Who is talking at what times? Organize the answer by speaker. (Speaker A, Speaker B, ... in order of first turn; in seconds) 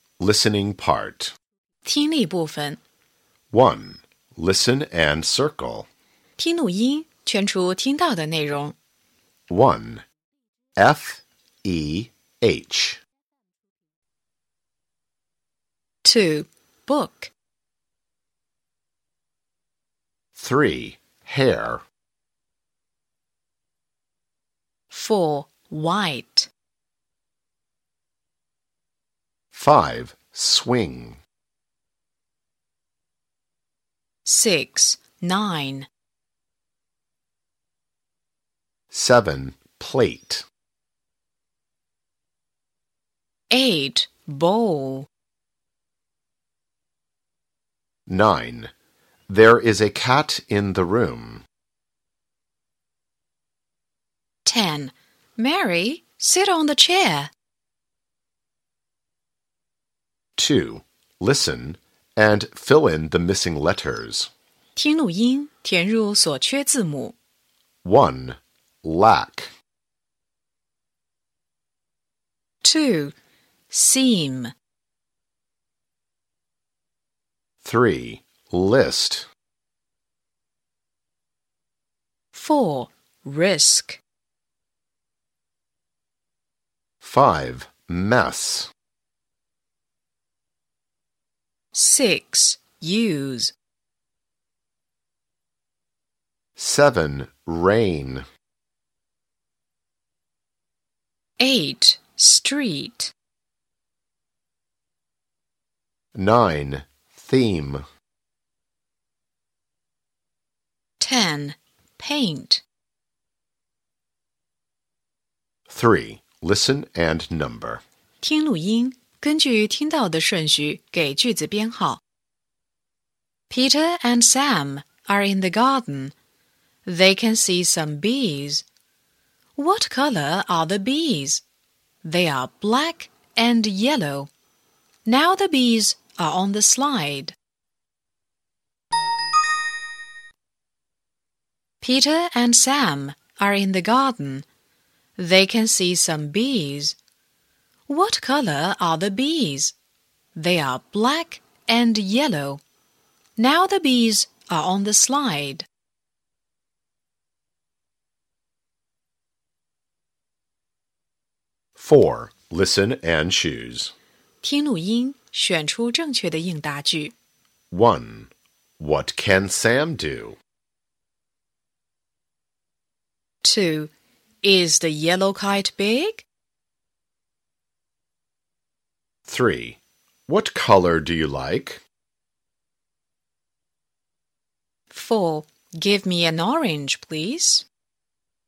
Speaker A: 0.2-1.4, 3.5-5.9, 9.5-10.0, 10.8-13.0, 20.4-21.8, 29.5-31.2, 38.9-40.5, 48.1-48.7, 49.3-51.4, 60.4-64.3, 67.8-69.5, 77.6-79.3, 87.0-88.7, 96.6-98.2, 106.1-107.8, 115.7-117.8, 161.8-163.9, 167.7-170.4, 179.2-181.8
Speaker B: 1.9-2.8, 6.4-8.8, 16.0-17.3, 24.9-26.5, 34.2-35.9, 43.5-45.1, 54.5-57.3, 64.8-67.1, 72.6-73.1, 73.7-74.5, 82.3-84.0, 91.7-93.5, 101.4-103.1, 111.0-112.6, 118.2-122.0, 123.5-126.1, 126.8-128.6, 129.6-131.4, 132.0-134.3, 135.0-137.3, 141.8-144.4, 145.2-146.9, 147.9-149.8, 150.3-152.6, 153.4-155.7, 164.4-167.1, 173.4-173.9, 174.4-176.2, 184.9-187.7